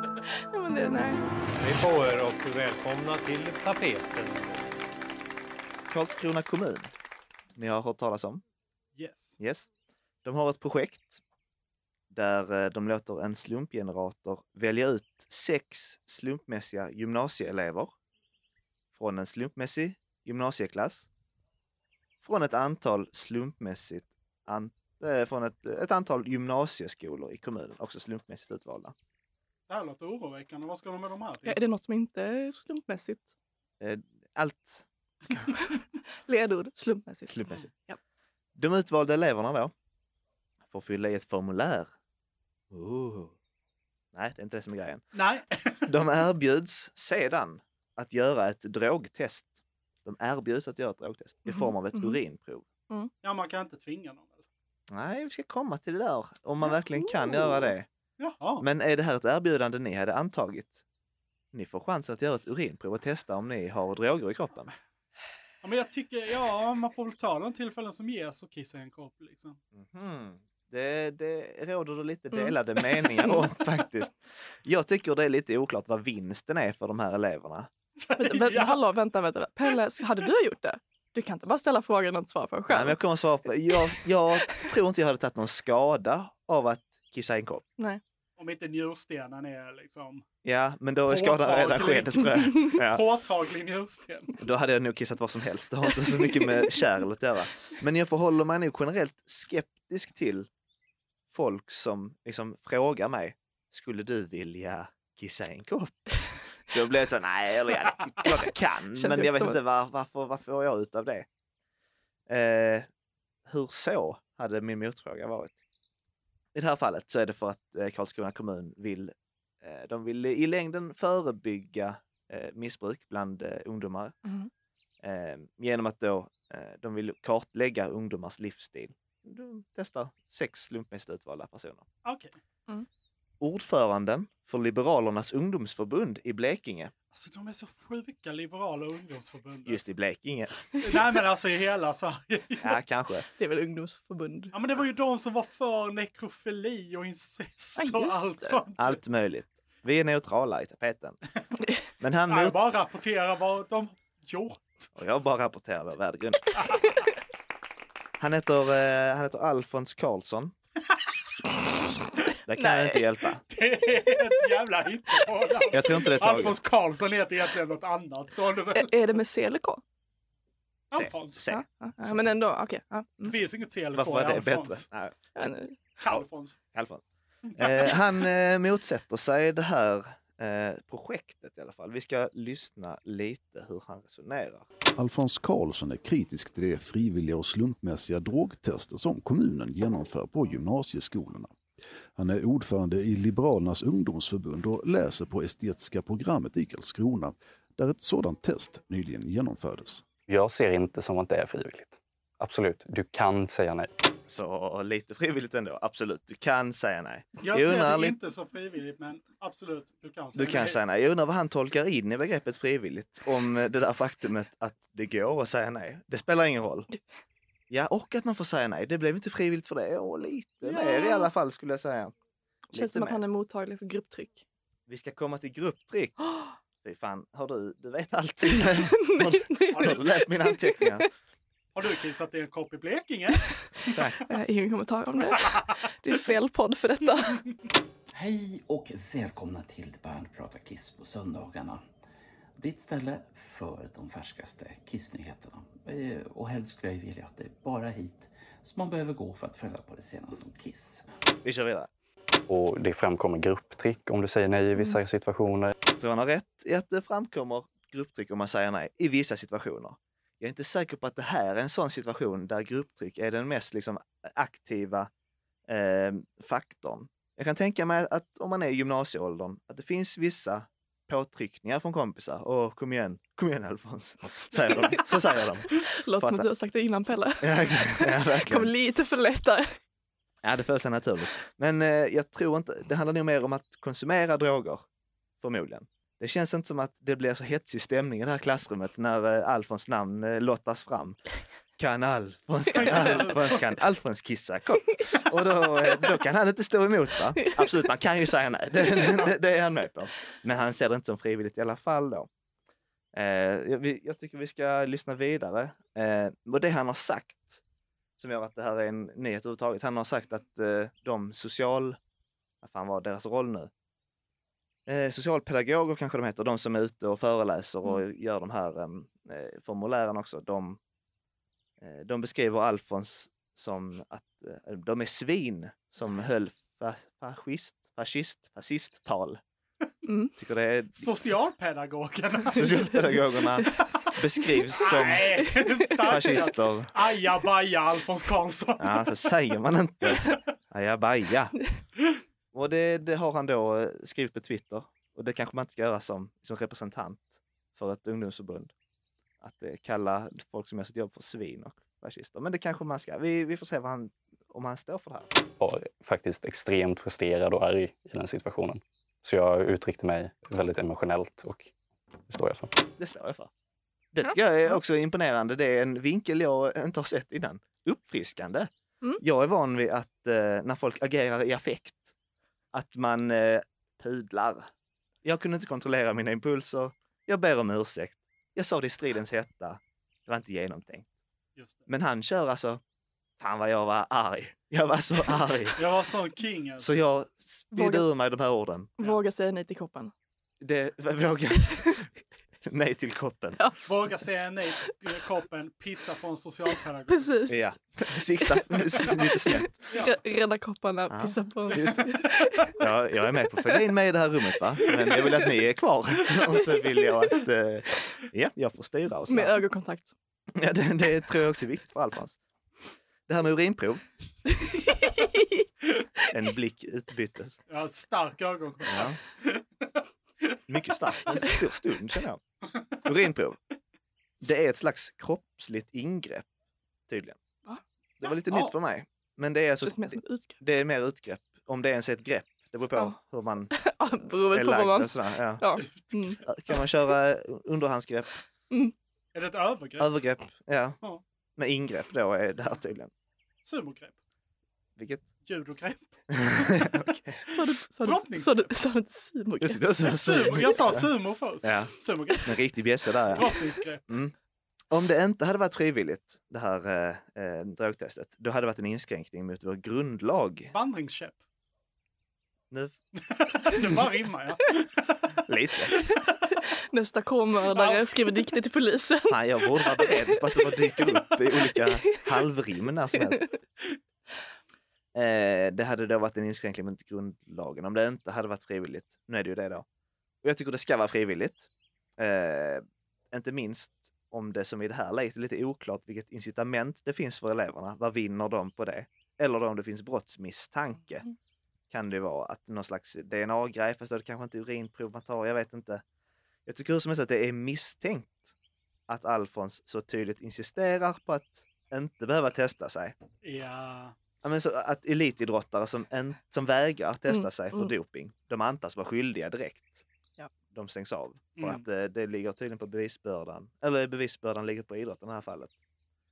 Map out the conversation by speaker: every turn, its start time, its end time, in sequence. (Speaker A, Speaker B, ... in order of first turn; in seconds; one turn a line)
Speaker A: 0.5-1.2
Speaker B: 1.6-4.7
Speaker C: 5.9-6.9
Speaker C: 7.5-8.4
Speaker D: 8.9-9.4
Speaker C: 9.4-9.7
Speaker C: 10.2-11.2
Speaker C: 12.1-17.9
Speaker C: 18.9-21.1
Speaker C: 22.2-28.9
Speaker D: 29.7-31.6
Speaker A: 31.4-33.3
Speaker C: 33.8-34.8
Speaker A: 35.6-38.0
Speaker C: 37.3-37.7
Speaker C: 38.5-39.7
Speaker C: 40.7-41.9
Speaker C: 42.7-43.3
Speaker C: 44.1-45.1
Speaker D: 45.1-45.9
Speaker C: 45.9-52.6
Speaker A: 51.5-52.2
Speaker D: 53.2-54.4
Speaker C: 54.9-57.9
Speaker A: 57.0-57.7
Speaker D: 58.2-58.6
Speaker C: 58.6-60.8
Speaker C: 61.5-64.7
Speaker D: 65.6-69.6
Speaker C: 69.7-77.7
Speaker D: 78.0-78.8
Speaker A: 78.2-83.0
Speaker C: 82.7-87.6
Speaker D: 88.4-90.2
Speaker C: 90.4-93.0
Speaker D: 91.1-94.3
Speaker C: 94.4-100.5
Speaker C: 101.3-111.2
Speaker A: 109.0-109.6
Speaker C: 112.3-112.9
Speaker C: 113.5-115.5
Speaker C: 116.5-124.2
Speaker A: 124.2-124.5
Speaker C: 125.0-131.8
Speaker D: 132.0-132.3
Speaker C: 133.4-136.9
Speaker D: 137.1-139.8
Speaker C: 139.7-140.5
Speaker D: 140.8-142.8
Speaker C: 142.6-143.2
Speaker A: 143.4-144.5
Speaker D: 144.5-149.0
Speaker A: 147.8-148.6
Speaker C: 148.8-151.2
Speaker C: 152.0-152.6
Speaker D: 152.3-154.9
Speaker C: 154.9-156.5
Speaker C: 158.2-160.5
Speaker C: 162.4-163.4
Speaker A: 162.6-163.0
Speaker D: 163.5-168.9
Speaker C: 165.7-166.6
Speaker A: 168.8-169.8
Speaker D: 170.9-171.5
Speaker C: 170.9-172.2
Speaker A: 171.5-173.3
Speaker D: 173.2-174.8
Speaker C: 173.9-175.2
Speaker A: 175.3-175.8
Speaker D: 176.0-176.6
Speaker C: 176.1-177.0
Speaker D: 177.5-177.9
Speaker C: 177.6-184.7
Speaker E: 184.9-191.5
Speaker E: 192.2-200.1
Speaker F: 200.3-203.9
Speaker C: 204.3-208.2
Speaker D: 207.4-210.8
Speaker C: 210.3-216.9
Speaker C: 217.7-222.1
Speaker D: 220.6-221.2
Speaker A: 222.7-224.4
Speaker C: 222.7-223.2
Speaker C: 224.9-226.3
Speaker C: 226.8-231.1
Speaker A: 228.6-231.0
Speaker D: 229.7-230.1
Speaker D: 231.7-233.9
Speaker C: 233.8-234.2
Speaker A: 234.3-237.4
Speaker G: 238.1-241.8
Speaker G: 242.6-251.1
Speaker C: 251.4-251.9
Speaker F: 252.5-255.7
Speaker C: 256.0-265.1
Speaker C: 265.7-276.5
Speaker A: 275.9-279.7
Speaker C: 277.4-278.7
Speaker C: 280.4-284.8
Speaker C: 285.4-291.2
Speaker C: 291.8-302.3
Speaker D: 292.7-293.6
Speaker C: 303.1-307.6
Speaker C: 308.2-312.0
Speaker C: 312.6-313.7
Speaker C: 314.9-320.8
Speaker C: 321.8-329.4
Speaker A: 330.1-330.3
Speaker C: 330.4-331.1
Speaker D: 330.9-333.1
Speaker C: 332.5-335.4
Speaker D: 334.7-339.3
Speaker A: 335.5-335.9
Speaker C: 336.0-336.9
Speaker C: 338.8-341.6
Speaker C: 342.5-348.7
Speaker C: 349.4-355.3
Speaker F: 355.6-361.7
Speaker F: 362.3-362.7
Speaker C: 363.0-363.5
Speaker C: 364.1-372.1
Speaker C: 372.7-374.7
Speaker C: 375.2-381.1
Speaker D: 381.6-381.8
Speaker C: 381.9-382.8
Speaker C: 383.4-385.8
Speaker D: 385.8-386.9
Speaker C: 386.8-388.9
Speaker A: 387.7-388.1
Speaker A: 389.0-390.1
Speaker C: 390.6-391.9
Speaker C: 392.6-393.6
Speaker D: 393.9-397.3
Speaker A: 397.1-397.7
Speaker C: 397.5-399.8
Speaker A: 398.4-402.7
Speaker D: 399.9-400.1
Speaker C: 401.1-402.1
Speaker D: 401.7-402.7
Speaker C: 402.8-409.6
Speaker A: 409.3-410.1
Speaker C: 410.5-412.4
Speaker C: 413.3-414.0
Speaker A: 414.5-415.6
Speaker C: 416.3-417.6
Speaker D: 417.7-419.6
Speaker C: 418.9-419.2
Speaker C: 420.7-422.4
Speaker C: 423.0-423.6
Speaker C: 424.4-426.4
Speaker C: 427.1-427.4
Speaker C: 428.2-433.7
Speaker A: 429.8-430.6
Speaker A: 433.7-436.4
Speaker C: 434.5-435.6
Speaker C: 436.4-438.3
Speaker D: 439.3-440.1
Speaker C: 440.0-441.0
Speaker C: 441.6-443.1
Speaker D: 443.6-444.1
Speaker C: 445.0-445.3
Speaker D: 445.4-446.9
Speaker C: 446.3-447.4
Speaker A: 447.4-449.8
Speaker D: 447.6-448.7
Speaker C: 449.6-451.1
Speaker D: 450.1-452.6
Speaker C: 451.6-453.5
Speaker D: 453.3-454.0
Speaker C: 454.1-454.3
Speaker C: 454.9-460.7
Speaker D: 460.7-461.4
Speaker C: 462.7-463.0
Speaker D: 463.2-465.1
Speaker C: 465.5-465.9
Speaker A: 466.5-470.1
Speaker D: 467.7-468.4
Speaker C: 469.3-473.4
Speaker A: 473.2-473.6
Speaker C: 475.1-479.8
Speaker C: 480.4-491.2
Speaker C: 491.9-496.0
Speaker C: 496.6-498.5
Speaker C: 499.1-503.1
Speaker D: 503.4-504.1
Speaker C: 504.4-510.0
Speaker A: 507.3-507.9
Speaker C: 510.7-515.7
Speaker D: 511.6-511.8